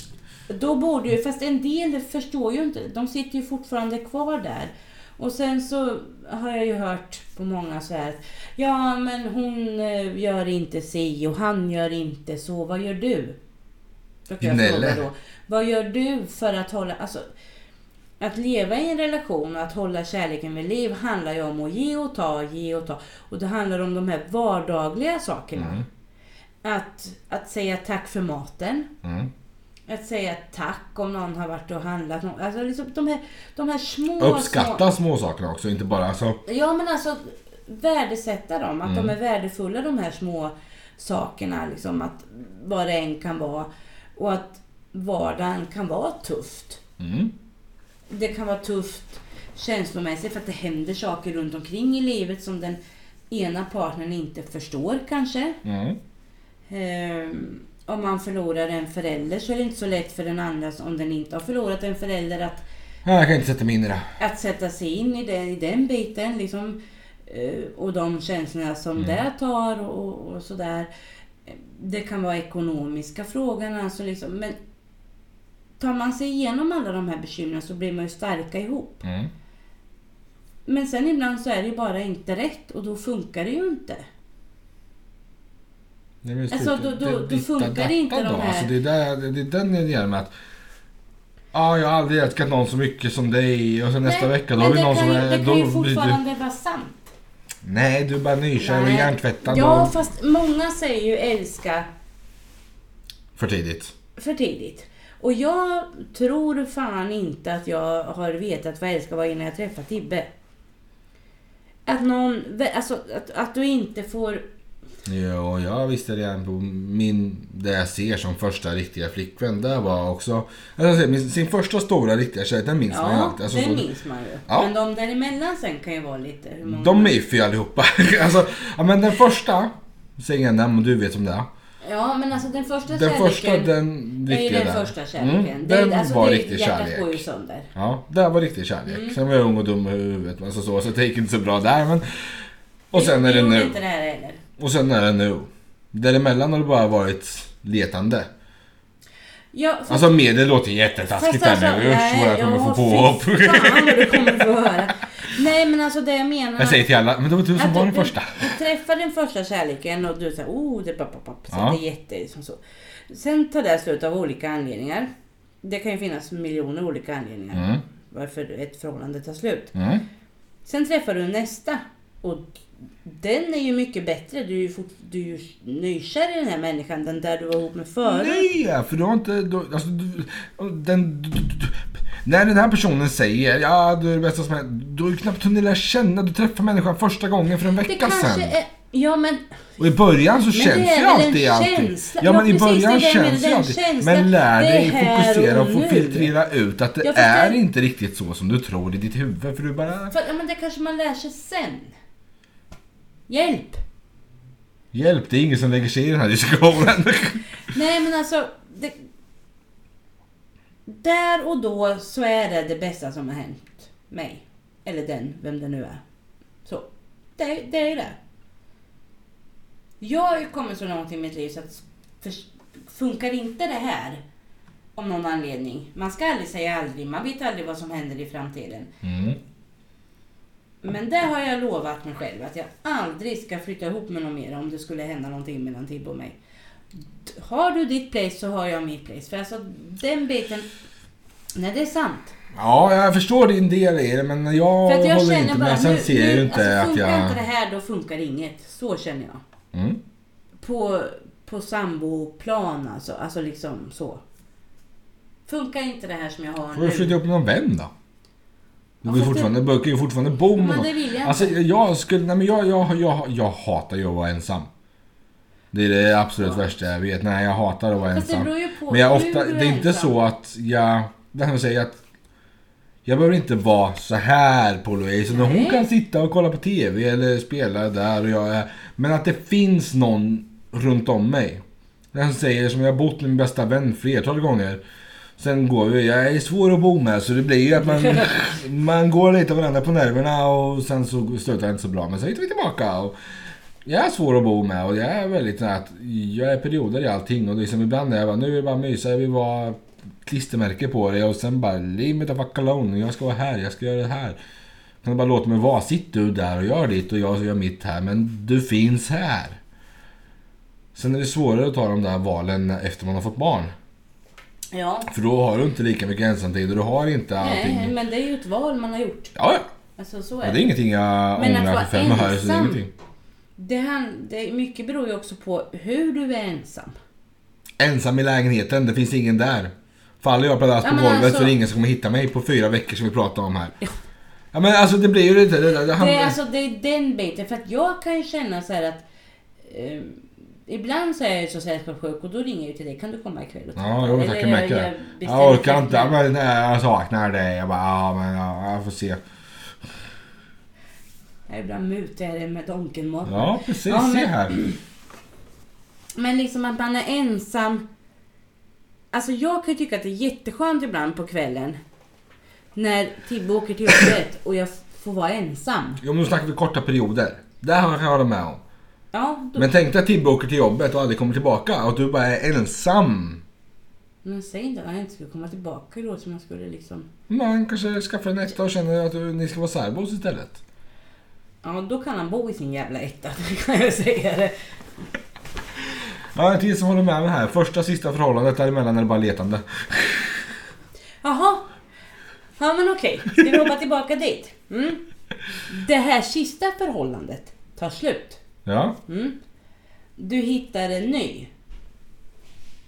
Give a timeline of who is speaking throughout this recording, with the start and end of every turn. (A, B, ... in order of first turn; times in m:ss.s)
0:00.5-0:13.4 A
0:14.3-0:17.2 A
0:14.4-0:15.0 B
0:18.2-0:25.8 A
0:25.6-0:25.8 B
0:26.6-0:28.9 A
0:29.0-0:29.3 B
0:29.9-0:34.9 A
0:34.2-0:36.4 B
0:36.5-0:46.8 A
0:38.9-0:39.1 B
0:47.0-0:47.3 B
0:48.1-0:52.8 A
0:53.3-0:55.6 A
0:55.6-0:56.0 B
0:56.7-1:02.7 A
1:03.0-1:04.0 B
1:04.2-1:10.9 A
1:11.5-1:14.6 A
1:15.8-1:19.0 A
1:19.0-1:19.3 B
1:20.7-1:24.0 A
1:26.2-1:30.3 B
1:26.5-1:28.7 A
1:31.5-1:36.2 B
1:34.0-1:37.1 A
1:37.6-1:39.9 B
1:38.6-1:41.9 A
1:43.4-1:43.9 B
1:44.2-1:50.3 A
1:51.9-1:54.4 A
1:55.1-2:03.9 B
2:02.9-2:07.2 A
2:06.7-2:11.5 B
2:11.8-2:13.7 A
2:12.9-2:17.2 B
2:14.3-2:17.7 A
2:17.8-2:22.0 B
2:18.9-2:19.2 A
2:22.9-2:23.8 B
2:22.9-2:24.4 A
2:24.6-2:28.3 B
2:29.5-2:30.2 A
2:29.9-2:34.5 B
2:31.0-2:36.9 A
2:36.6-2:38.6 B
2:37.5-2:45.1 A
2:41.5-2:41.8 B
2:45.6-2:49.8 A
2:47.5-2:47.8 B
2:49.8-2:50.0 B
2:50.6-2:58.5 A
2:58.0-3:08.5 B
3:07.8-3:09.4 A
3:09.8-3:20.1 B
3:10.5-3:16.3 A
3:17.0-3:17.6 A
3:20.1-3:21.9 A
3:23.3-3:23.8 A
3:24.9-3:27.4 B
3:27.7-3:29.0 A
3:30.9-3:36.0 A
3:36.6-3:38.2 A
3:40.0-3:44.2 A
3:45.0-3:48.9 A
3:49.0-3:49.4 B
3:50.8-3:56.4 A
3:57.2-4:00.7 A
4:01.6-4:02.3 A
4:02.5-4:07.4 B
4:04.9-4:09.4 A
4:09.7-4:10.0 B
4:10.6-4:14.2 A
4:15.5-4:17.2 A
4:16.8-4:17.9 B
4:19.0-4:19.6 A
4:19.0-4:24.7 B
4:20.5-4:21.6 A
4:25.7-4:32.0 B
4:28.1-4:30.1 A
4:33.1-4:44.8 B
4:35.3-4:35.8 A
4:45.4-4:53.2 B
4:48.0-4:48.3 A
4:53.8-5:04.4 B
5:05.0-5:09.6 B
5:11.0-5:13.7 B
5:14.7-5:15.1 A
5:15.1-5:17.9 B
5:17.4-5:19.4 A
5:19.4-5:19.7 B
5:20.0-5:20.7 A
5:20.4-5:22.9 B
5:21.4-5:22.8 A
5:23.6-5:27.0 A
5:27.8-5:33.8 B
5:30.8-5:31.5 A
5:34.5-5:36.4 B
5:35.9-5:39.0 A
5:39.6-5:46.2 A
5:43.8-5:49.2 B
5:51.5-5:54.8 A
5:53.3-5:54.6 B
5:56.2-5:57.8 A
5:59.1-6:01.8 A
6:02.8-6:06.0 A
6:06.0-6:08.6 B
6:09.1-6:09.8 A
6:09.6-6:13.4 B
6:14.2-6:17.1 A
6:17.3-6:20.6 B
6:21.6-6:24.5 A
6:26.3-6:30.5 B
6:31.2-6:31.7 A
6:32.6-6:35.0 A
6:35.6-6:38.4 A
6:38.7-6:39.0 B
6:39.1-6:39.4 A
6:40.2-6:41.5 A